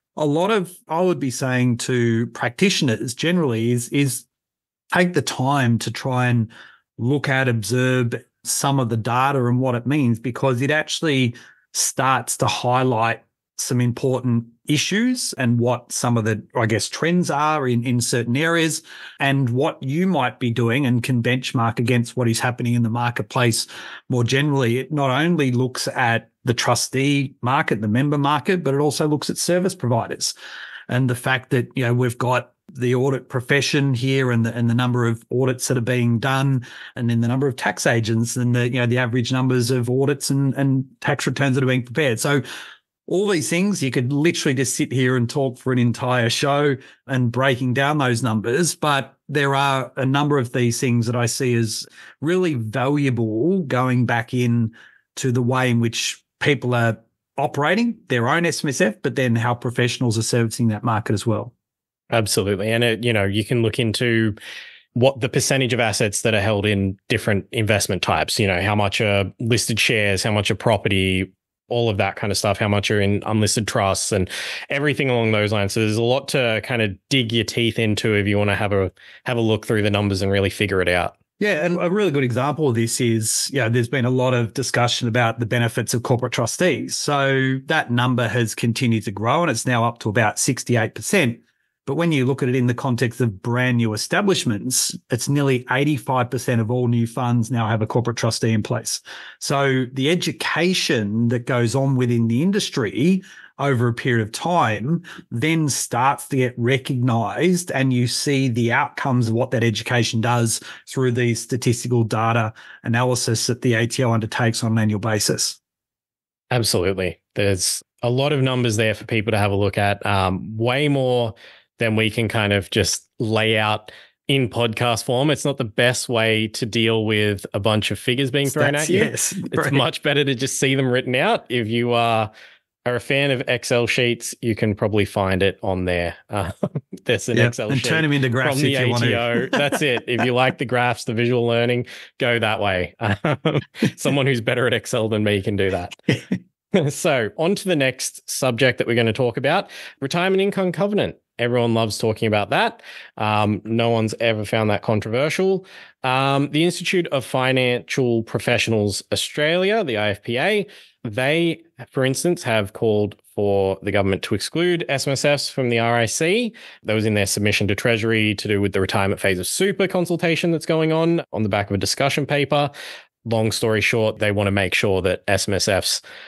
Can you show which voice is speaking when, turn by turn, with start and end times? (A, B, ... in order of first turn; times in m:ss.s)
0:00.2-0:04.2 A
0:04.9-0:30.3 A
0:30.9-0:42.4 A
0:43.1-1:01.5 A
1:02.1-1:04.4 B
1:05.0-1:21.1 B
1:21.4-1:55.6 A
1:56.5-2:12.3 B
2:08.5-2:09.8 A
2:12.8-2:26.1 B
2:17.3-2:19.7 A
2:26.7-2:52.7 B
2:53.2-2:56.0 B